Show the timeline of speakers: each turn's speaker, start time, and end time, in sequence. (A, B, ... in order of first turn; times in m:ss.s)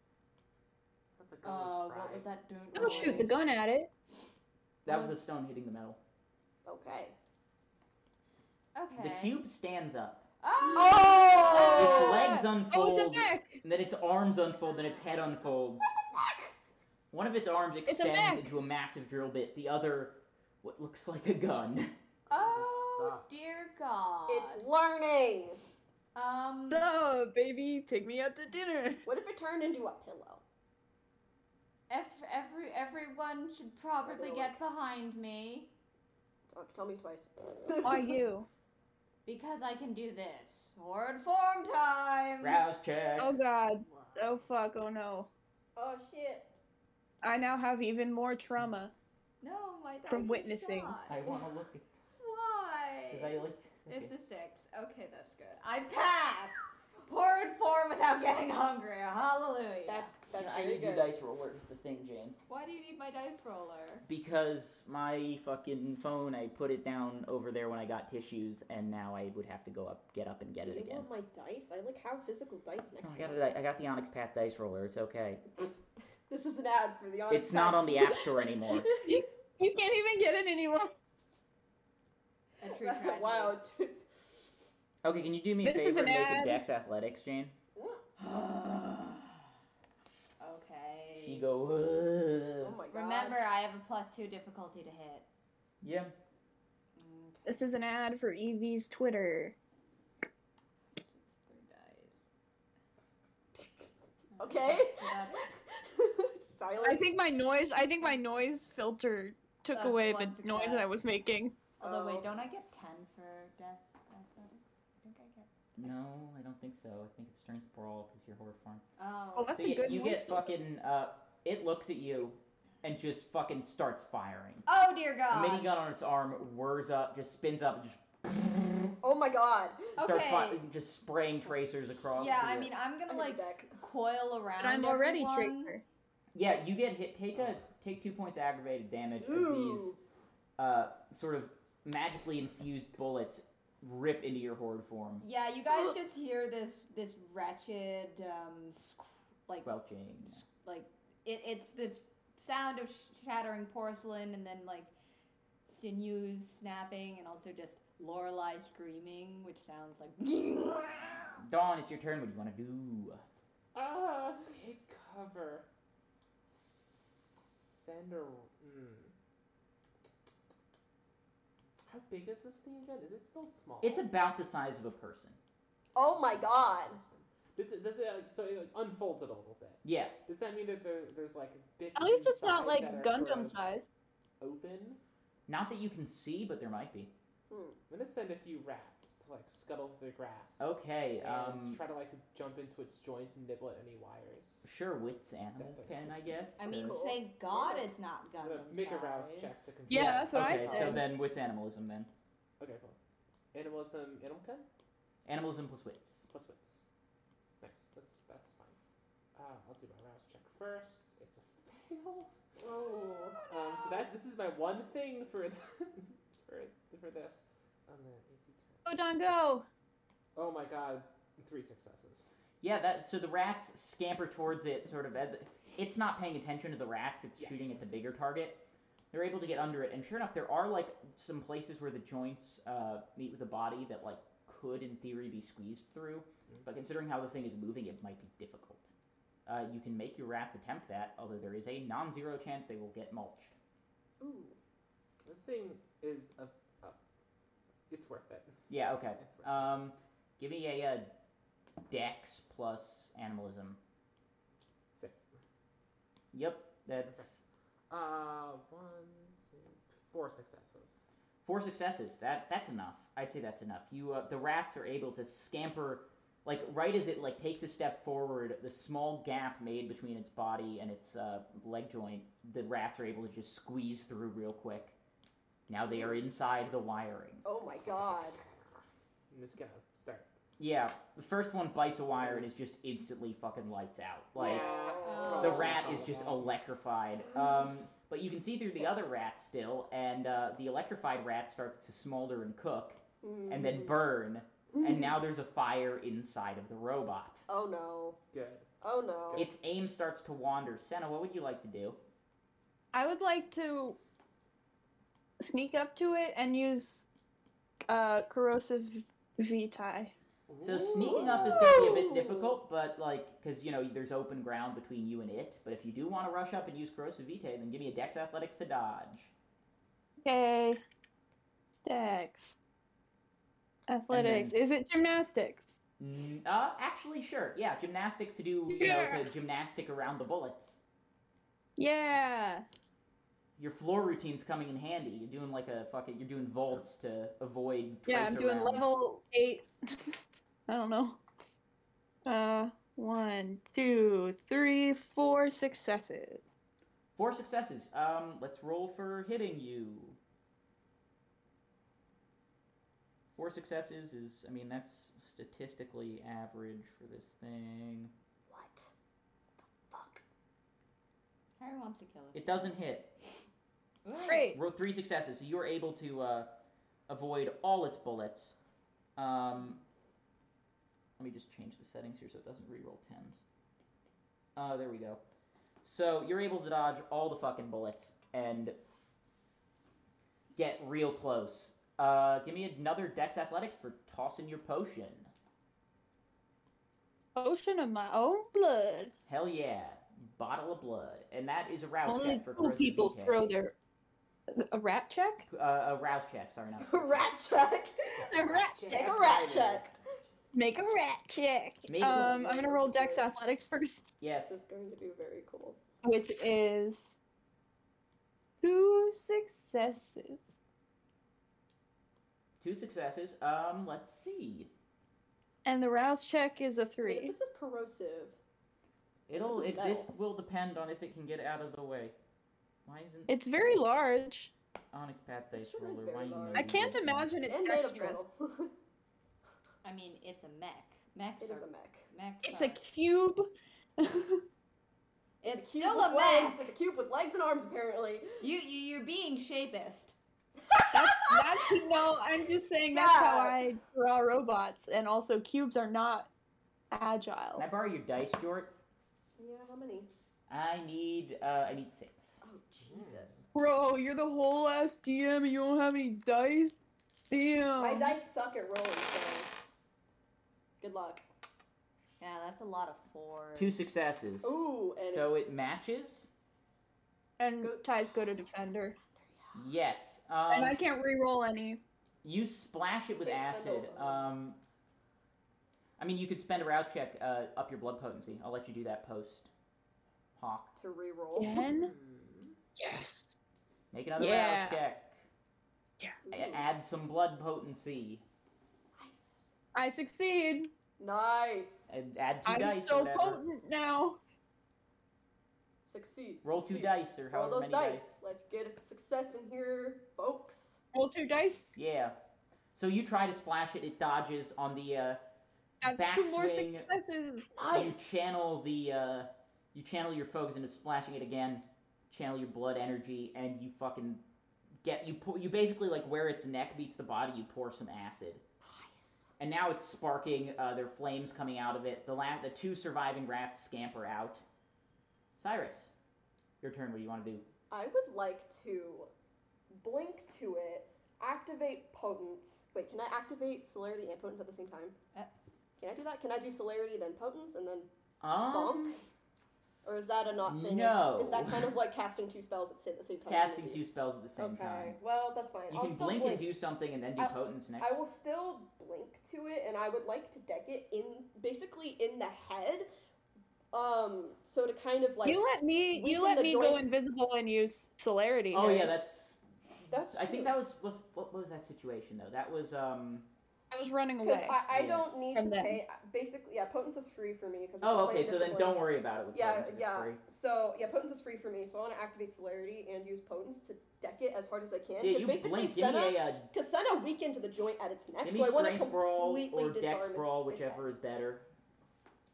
0:01.2-0:02.3 A
0:01.4-0:03.4 B
0:02.7-0:03.9 C
0:04.8-0:06.0 D
0:04.9-0:05.1 B
0:06.6-0:07.2 E
0:08.7-0:09.4 B
0:09.0-0:10.2 D
0:10.4-0:12.3 B
0:10.7-0:12.2 E
0:11.4-0:13.6 C
0:11.6-0:15.9 D
0:14.8-0:15.0 B
0:15.8-0:16.5 E
0:17.1-0:21.9 D
0:17.9-0:18.6 C
0:22.3-0:23.6 A
0:22.3-0:24.6 B
0:24.3-0:25.6 E
0:26.1-0:26.9 B
0:26.7-0:29.0 C
0:29.0-0:30.4 E
0:31.9-0:35.7 B
0:34.0-0:34.6 E
0:36.5-0:38.2 E
0:37.8-0:38.5 C
0:39.2-0:42.6 B
0:42.4-0:43.4 D
0:43.2-0:45.3 C
0:45.8-0:46.5 E
0:47.2-0:48.9 C
0:49.4-0:51.4 B
0:50.1-0:51.0 C
0:51.1-0:51.9 D
0:52.2-1:00.1 B
0:53.1-0:54.1 D
0:59.8-1:01.1 E
1:00.3-1:02.4 D
1:02.5-1:04.0 B
1:04.0-1:11.1 D
1:10.6-1:13.4 E
1:13.0-1:15.4 D
1:16.3-1:19.1 E
1:17.3-1:18.9 D
1:19.0-1:20.9 C
1:22.6-1:23.6 B
1:22.7-1:24.0 E
1:25.0-1:27.5 D
1:25.6-1:26.6 C
1:27.8-1:28.0 E
1:28.2-1:29.4 B
1:30.4-1:31.4 B
1:31.2-1:32.8 D
1:32.6-1:33.4 E
1:32.9-1:35.2 B
1:35.8-1:36.1 D
1:37.0-1:37.6 B
1:37.4-1:39.6 C
1:40.9-1:42.1 B
1:44.3-1:45.4 B
1:44.4-1:47.1 E
1:46.8-1:51.6 C
1:49.7-1:50.9 B
1:51.8-1:55.5 B
1:51.8-1:52.3 E
1:55.8-1:58.8 D
1:59.0-2:00.2 B
1:59.4-2:00.5 C
1:59.5-2:04.7 D
2:04.7-2:05.7 B
2:05.3-2:09.0 D
2:09.0-2:10.0 E
2:10.0-2:10.6 B
2:10.0-2:12.7 D
2:12.1-2:15.7 B
2:12.4-2:13.8 E
2:14.6-2:15.8 C
2:16.3-2:19.9 D
2:19.2-2:20.0 E
2:20.6-2:25.2 D
2:25.2-2:29.7 B
2:29.5-2:30.4 D
2:30.4-2:34.9 B
2:35.7-2:41.4 B
2:41.4-2:43.2 D
2:43.7-2:45.6 A
2:46.5-2:49.1 A
2:51.9-2:54.1 A
2:53.8-2:55.4 D
2:55.9-2:57.0 E
2:56.1-3:03.7 A
2:59.8-3:00.2 D
3:01.9-3:03.9 C
3:04.4-3:05.0 A
3:05.5-3:07.1 D
3:07.5-3:07.8 E
3:07.9-3:14.6 A
3:10.6-3:11.8 D
3:14.6-3:17.0 D
3:15.6-3:16.3 A
3:16.6-3:19.5 B
3:16.6-3:17.9 E
3:18.4-3:21.0 A
3:19.9-3:21.0 C
3:19.9-3:22.1 D
3:22.6-3:23.0 A
3:23.5-3:24.6 A
3:25.2-3:26.3 D
3:26.3-3:26.8 A
3:27.6-3:28.8 A
3:29.3-3:32.4 A
3:32.6-3:33.5 E
3:33.4-3:38.8 A
3:38.8-3:39.6 C
3:40.4-3:42.3 A
3:42.6-3:58.9 D
3:59.4-4:03.5 D
4:04.2-4:04.6 E
4:05.2-4:07.0 A
4:07.9-4:08.6 A
4:08.7-4:11.1 D
4:09.2-4:09.7 A
4:11.9-4:13.8 D
4:14.9-4:15.3 A
4:16.3-4:17.4 D
4:17.9-4:21.0 A
4:21.4-4:34.9 D
4:35.7-4:37.4 D
4:35.9-4:36.2 E
4:37.4-4:38.4 E
4:39.3-4:40.3 A
4:40.6-4:44.8 D
4:42.2-4:42.5 A
4:44.3-4:46.5 A
4:44.4-4:45.8 E
4:45.0-4:45.7 B
4:45.4-4:57.5 D
4:47.4-4:47.7 E
4:53.2-4:54.0 E
4:54.7-4:55.1 E
4:57.5-4:58.2 E
4:58.3-4:58.7 A
4:58.8-4:59.4 E
4:59.3-5:02.0 D
5:02.9-5:04.0 C
5:05.4-5:07.1 C
5:07.9-5:10.1 C
5:10.5-5:11.6 A
5:10.6-5:19.3 D
5:11.0-5:12.6 E
5:20.2-5:20.8 C
5:21.8-5:22.6 C
5:23.9-5:25.8 C
5:24.1-5:24.6 D
5:26.0-5:30.8 D
5:28.7-5:29.3 C
5:31.8-5:32.6 C
5:33.6-5:39.0 D
5:38.1-5:41.2 C
5:42.2-5:46.5 C
5:47.2-5:50.2 D
5:53.3-5:58.1 D
5:58.5-5:58.9 E
5:59.9-6:00.2 E
6:01.6-6:02.7 B
6:02.3-6:03.2 D
6:04.0-6:04.7 B
6:04.2-6:04.7 C
6:04.5-6:06.5 D
6:07.1-6:08.5 D
6:09.2-6:09.8 D
6:11.2-6:13.4 D
6:14.6-6:15.2 D
6:15.8-6:18.8 D
6:20.6-6:25.3 D
6:27.4-6:29.1 C
6:29.3-6:33.5 D
6:32.0-6:33.7 C
6:34.5-6:35.4 C
6:35.5-6:37.3 D
6:36.8-6:39.9 E
6:38.2-6:39.9 A
6:38.3-6:38.8 C
6:40.5-6:44.1 C
6:41.9-6:42.4 D
6:42.0-6:43.4 E
6:44.2-6:44.6 D
6:44.5-6:45.8 E
6:46.0-6:47.1 C
6:48.6-6:50.6 C
6:52.6-6:54.7 D
6:55.6-6:57.3 C
6:57.0-6:58.4 E
6:59.3-7:02.1 D
6:59.4-7:00.1 E
7:02.8-7:03.4 D
7:03.3-7:04.5 C
7:04.9-7:07.3 D
7:05.5-7:08.7 E
7:06.5-7:08.2 C
7:09.8-7:12.8 B
7:11.4-7:12.0 E
7:12.4-7:14.4 C
7:15.4-7:16.7 B
7:15.4-7:18.4 E
7:18.4-7:20.1 B
7:20.7-7:21.4 E
7:20.9-7:26.3 C
7:22.9-7:23.6 E
7:26.9-7:27.6 C
7:27.6-7:28.7 D
7:29.4-7:30.1 E
7:30.5-7:32.4 D
7:32.4-7:33.5 E
7:32.8-7:33.4 A
7:33.5-7:36.8 C
7:37.3-7:38.2 C
7:37.8-7:39.5 E
7:40.8-7:41.2 E
7:42.2-7:43.8 B
7:43.6-7:46.3 D
7:44.4-7:45.3 E
7:47.4-7:49.0 C
7:47.6-7:48.0 E
7:49.2-7:49.5 E
7:49.5-7:50.8 D
7:50.5-7:51.8 C
7:52.2-7:54.6 D
7:53.2-7:54.4 E
7:56.0-7:59.5 D
8:00.4-8:00.8 D
8:00.8-8:01.5 E
8:01.4-8:01.9 C
8:01.4-8:02.6 A
8:02.8-8:03.3 C
8:03.9-8:05.2 D
8:04.2-8:04.8 C
8:06.2-8:06.7 E
8:06.3-8:08.2 D
8:08.9-8:09.5 E
8:09.7-8:10.7 C
8:11.0-8:11.9 E
8:11.9-8:13.4 D
8:12.4-8:14.2 C
8:15.8-8:20.8 E
8:16.4-8:18.1 D
8:20.9-8:21.8 C
8:21.7-8:22.2 D
8:22.7-8:25.2 D
8:25.8-8:27.7 C
8:25.8-8:26.9 D
8:27.6-8:28.3 E
8:27.7-8:34.2 D
8:34.8-8:38.4 D
8:38.6-8:39.3 E
8:39.4-8:44.4 D
8:45.4-8:45.9 D
8:46.6-8:47.4 D
8:47.7-8:49.1 E
8:49.7-8:55.0 E
8:55.8-8:57.9 E
8:58.2-8:59.0 D
8:58.5-8:59.0 E
8:59.8-9:03.8 E
9:00.4-9:01.7 D
9:03.2-9:05.0 D
9:04.4-9:06.5 E
9:05.7-9:08.0 D
9:07.2-9:12.9 E
9:13.7-9:16.8 E
9:15.2-9:18.9 C
9:18.5-9:23.3 D
9:19.9-9:20.5 E
9:23.7-9:24.6 C
9:24.2-9:40.9 E
9:24.7-9:25.1 D
9:25.3-9:25.8 C
9:27.8-9:30.2 D
9:35.0-9:36.5 D
9:38.2-9:41.5 D